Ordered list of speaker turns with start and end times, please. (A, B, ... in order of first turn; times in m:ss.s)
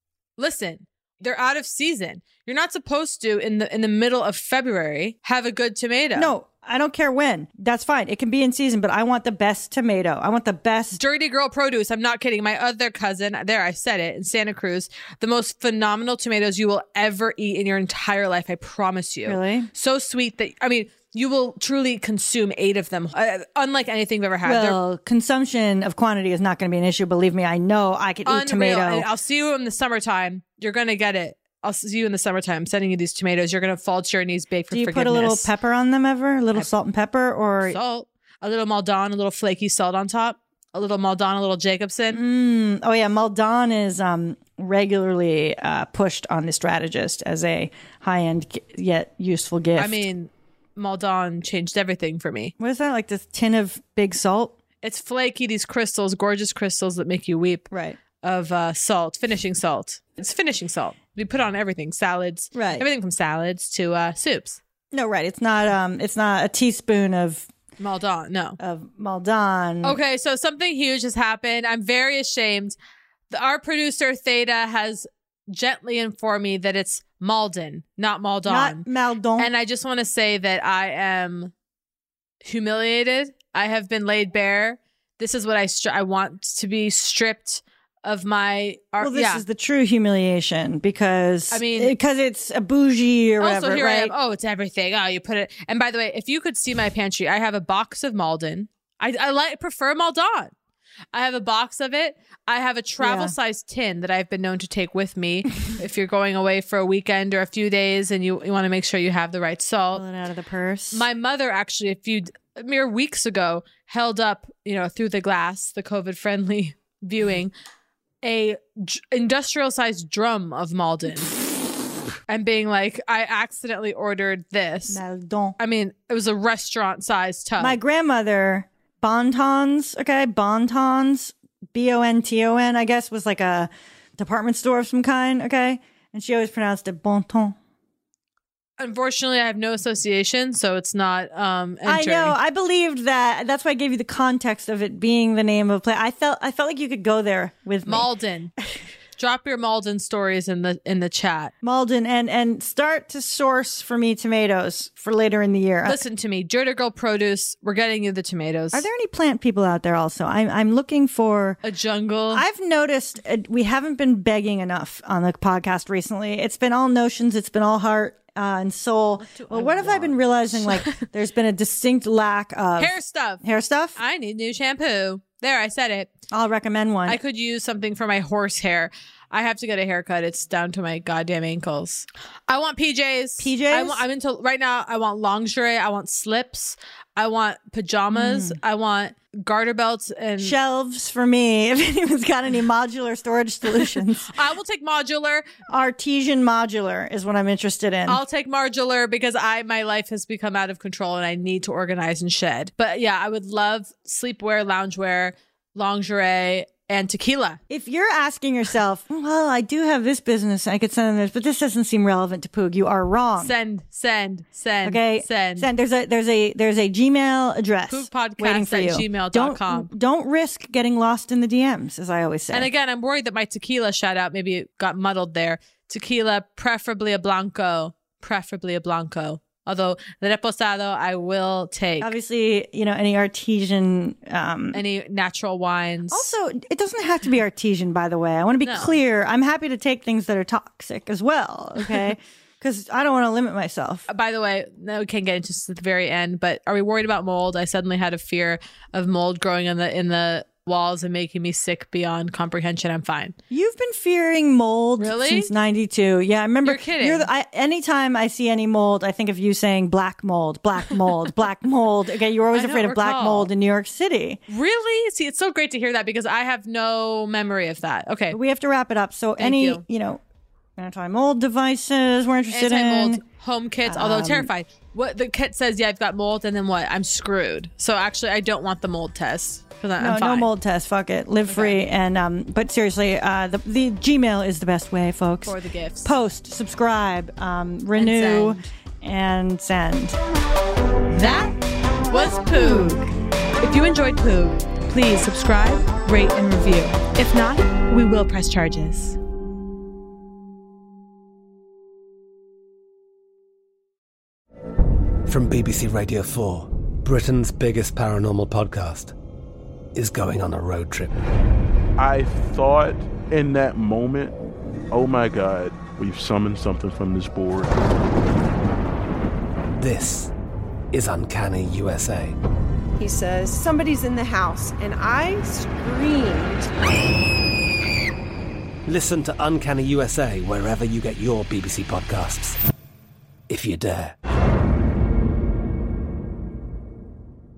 0:00.4-0:06.3 A
0:06.2-0:11.0 B
0:10.9-0:24.8 A
0:19.2-0:19.7 B
0:24.4-0:29.1 B
0:28.2-0:35.5 A
0:34.7-0:37.8 B
0:37.6-0:42.2 A
0:42.1-0:50.0 B
0:49.8-0:52.5 A
0:52.6-0:54.5 B
0:54.8-0:57.7 A
0:57.7-0:58.0 B
0:58.2-1:04.6 A
1:02.5-1:02.8 B
1:04.9-1:07.5 B
1:07.8-1:08.6 A
1:08.6-1:10.0 B
1:09.8-1:12.8 A
1:13.3-1:18.8 A
1:18.4-1:19.5 B
1:19.4-1:21.5 A
1:22.4-1:29.4 A
1:29.0-1:34.1 B
1:31.5-1:31.9 A
1:33.4-1:40.5 A
1:41.1-1:50.0 A
1:43.0-1:43.3 B
1:49.9-1:51.0 B
1:50.9-1:57.5 A
1:58.2-2:01.4 A
2:02.3-2:05.0 A
2:04.9-2:05.6 B
2:05.6-2:07.8 A
2:07.6-2:17.5 B
2:18.8-2:22.3 A
2:21.8-2:28.1 B
2:27.8-2:28.5 A
2:29.2-2:31.5 A
2:31.6-2:36.0 B
2:35.9-2:38.8 A
2:38.7-2:41.6 B
2:41.6-2:42.4 A
2:42.3-2:54.0 B
2:49.2-2:51.0 A
2:52.8-2:53.4 A
2:54.0-2:56.1 A
2:56.3-2:57.2 B
2:57.1-3:10.6 A
3:03.4-3:04.0 B
3:08.1-3:08.6 B
3:10.4-3:14.3 B
3:13.7-3:15.4 A
3:15.7-3:18.2 B
3:18.1-3:27.6 A
3:27.7-3:33.5 B
3:33.4-3:35.7 A
3:34.8-3:42.7 B
3:37.9-3:39.9 A
3:42.5-3:52.1 A
3:52.0-3:54.8 B
3:54.7-3:56.3 A
3:56.1-4:04.0 B
3:58.6-3:58.9 A
4:04.1-4:13.4 A
4:13.5-4:24.4 B
4:15.0-4:15.5 A
4:16.6-4:17.3 A
4:22.5-4:23.5 A
4:24.5-4:28.4 A
4:28.3-4:30.2 B
4:29.4-4:29.8 A
4:30.8-4:33.2 B
4:32.5-4:40.5 A
4:33.8-4:34.5 B
4:40.0-4:45.5 B
4:41.5-4:41.8 A
4:45.4-4:46.1 A
4:46.0-4:50.2 B
4:48.0-4:48.6 A
4:51.1-4:51.5 A
4:52.1-4:53.1 A
4:53.6-4:59.2 A
5:05.3-5:09.1 C
5:09.9-5:11.2 C
5:12.0-5:14.3 D
5:14.9-5:17.7 D
5:19.8-5:20.3 C
5:20.9-5:22.3 C
5:23.0-5:26.7 E
5:28.9-5:32.6 C
5:33.5-5:34.1 C